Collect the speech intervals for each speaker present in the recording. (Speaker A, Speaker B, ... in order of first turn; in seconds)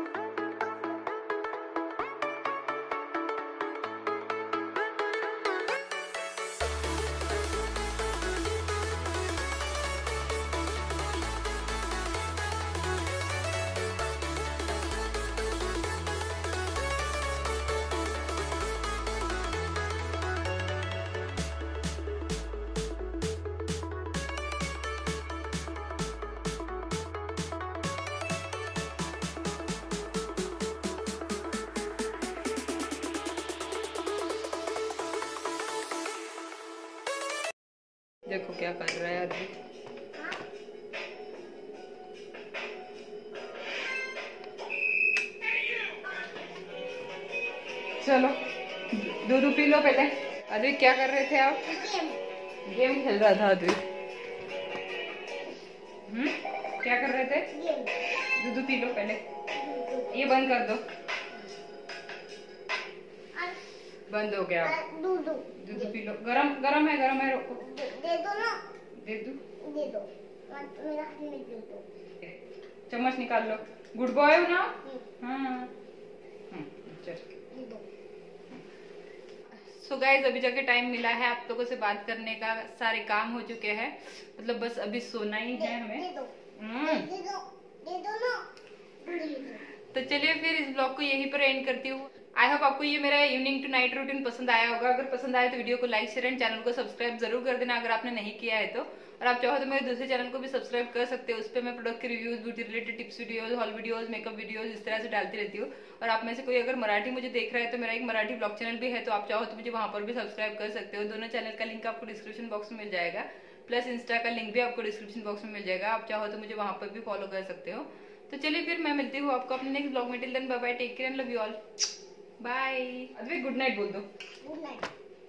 Speaker A: 38.3-39.5, 48.0-51.7, 52.6-53.9, 56.0-57.5, 58.3-59.2, 60.1-60.8, 64.1-64.8, 65.5-67.6, 69.0-69.4, 72.2-75.7, 76.5-77.4, 79.5-87.1, 89.1-121.6, 122.4-124.1
Speaker B: 51.6-52.2, 57.5-58.0, 59.5-60.2, 63.3-63.6, 64.6-66.0, 67.6-68.6, 69.6-71.8, 77.5-77.8, 85.5-88.5, 89.0-89.6, 124.4-124.9